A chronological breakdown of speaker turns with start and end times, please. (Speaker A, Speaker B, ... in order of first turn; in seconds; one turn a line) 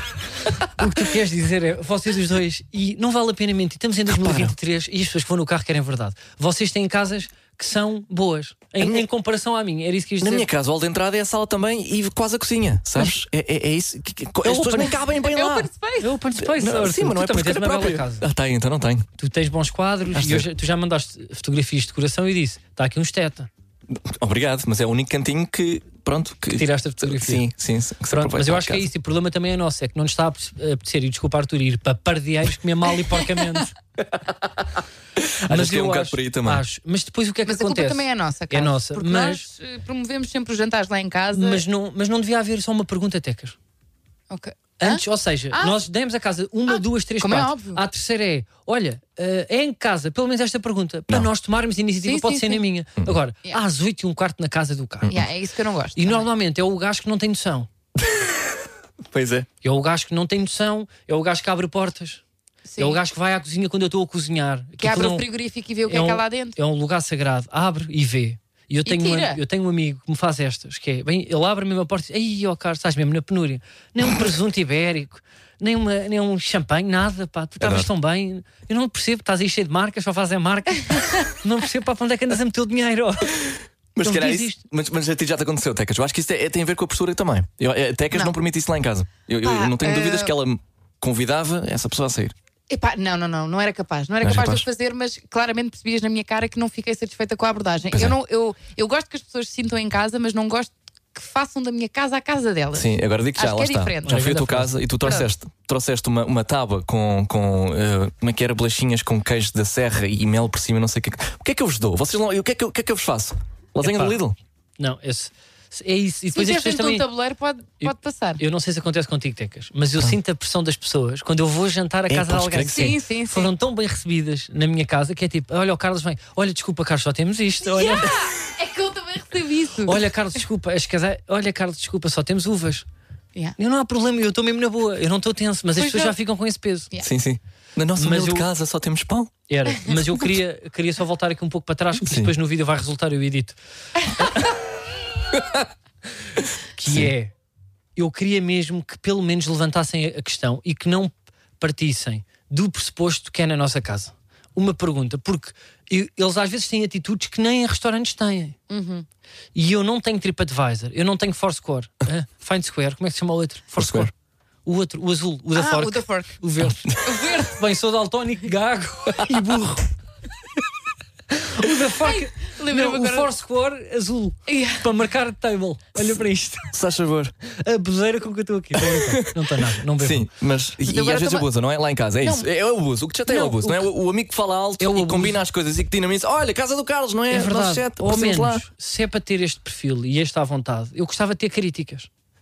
Speaker A: 0.8-10.5
Speaker B: 4.1-4.5
Speaker B: 10.2-15.7
Speaker A: 14.4-14.9
Speaker C: 15.0-16.1
Speaker A: 16.0-18.3
Speaker B: 16.4-19.1
Speaker A: 19.2-23.5
Speaker B: 20.1-20.5
Speaker B: 23.9-28.9
Speaker A: 26.5-27.5
Speaker A: 28.1-33.7
Speaker B: 35.2-36.6
Speaker A: 35.5-39.5
Speaker C: 37.5-41.6
Speaker A: 41.3-43.6
Speaker C: 44.3-45.8
Speaker A: 44.8-55.2
Speaker C: 46.7-47.8
Speaker C: 52.0-52.6
Speaker C: 55.1-56.3
Speaker A: 56.0-57.7
Speaker B: 58.0-58.4
Speaker B: 59.1-59.5
Speaker A: 59.6-62.2
Speaker C: 62.6-63.0
Speaker A: 62.8-65.3
Speaker C: 64.8-66.6
Speaker A: 65.9-83.4
Speaker C: 68.9-69.4
Speaker B: 77.6-77.9
Speaker B: 83.4-92.3
Speaker A: 84.0-84.6
Speaker C: 89.4-90.3
Speaker C: 92.7-104.4
Speaker B: 94.2-94.7
Speaker B: 102.7-114.4
Speaker A: 104.0-104.8
Speaker A: 113.8-114.2
Speaker A: 114.8-117.1
Speaker C: 116.3-118.4
Speaker A: 117.8-128.1
Speaker B: 122.1-123.0
Speaker C: 122.7-123.5
Speaker C: 127.7-130.1
Speaker A: 129.8-132.9
Speaker A: 133.6-136.9
Speaker C: 135.8-136.2
Speaker B: 137.0-139.3
Speaker A: 138.0-138.5
Speaker A: 139.5-143.6
Speaker B: 142.0-142.3
Speaker B: 145.3-145.7
Speaker A: 146.8-147.3
Speaker A: 148.0-158.6
Speaker C: 158.7-159.1
Speaker A: 159.6-164.1
Speaker B: 163.8-164.1
Speaker A: 164.7-169.9
Speaker C: 165.6-166.4
Speaker C: 167.0-167.6
Speaker A: 171.3-176.7
Speaker C: 172.0-173.3
Speaker C: 174.5-174.8
Speaker B: 176.7-177.3
Speaker A: 177.5-180.3
Speaker B: 178.8-179.3
Speaker B: 180.0-188.7
Speaker C: 180.8-181.5
Speaker C: 182.2-182.5
Speaker A: 183.3-183.9
Speaker A: 184.8-185.4
Speaker A: 187.3-192.1